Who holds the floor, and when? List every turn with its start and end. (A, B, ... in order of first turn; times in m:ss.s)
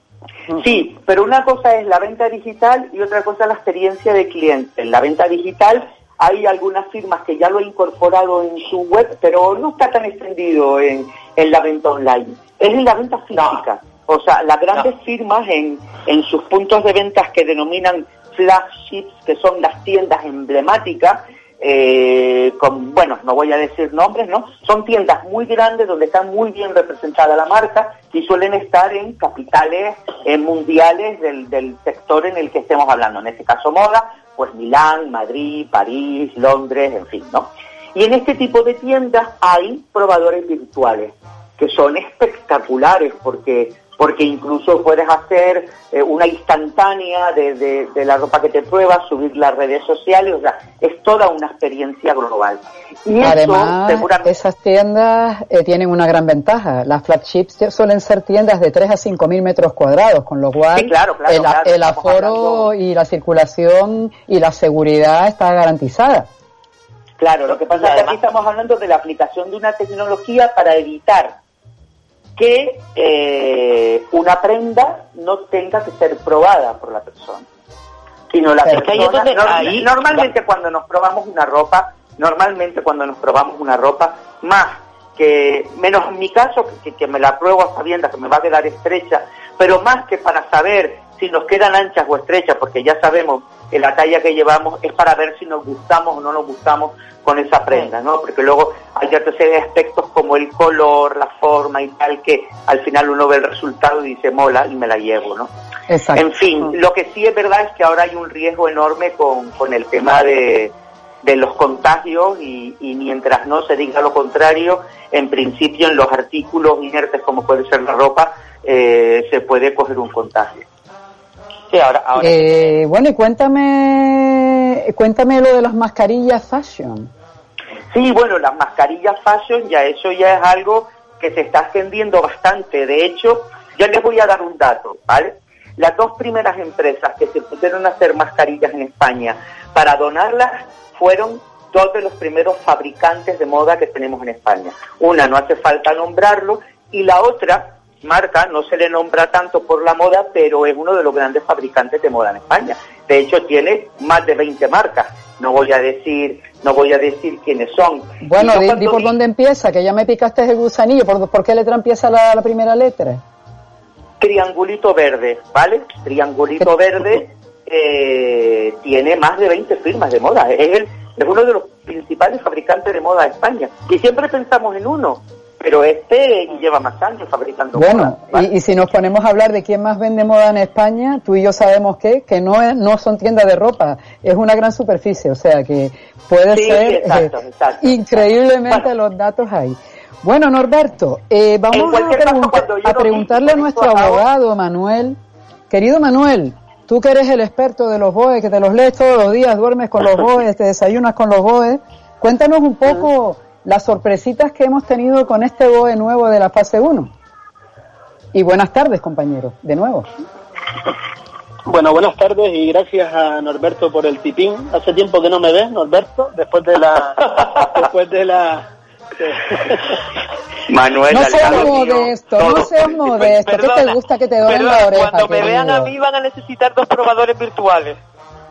0:00.5-0:54.3 A
0:53.2-1:06.3 B
1:00.8-1:02.7 A
1:07.2-1:11.4 A
1:07.5-1:08.2 C
1:12.4-1:17.5 A
1:18.3-1:45.5 A
1:18.7-1:20.3 C
1:45.9-1:46.3 B
1:46.2-2:00.6 A
2:01.7-2:02.8 C
2:02.2-2:07.1 B
2:07.9-2:39.1 A
2:38.2-2:43.2 B
2:44.2-2:58.5 A
2:57.7-3:15.2 B
3:06.5-3:08.8 A
3:11.7-3:14.2 A
3:15.7-3:27.1 B
3:28.3-3:30.1 B
3:31.7-3:38.7 D
3:39.2-3:40.0 D
3:40.7-3:43.3 A
3:41.1-3:45.9 B
3:43.2-3:48.0 C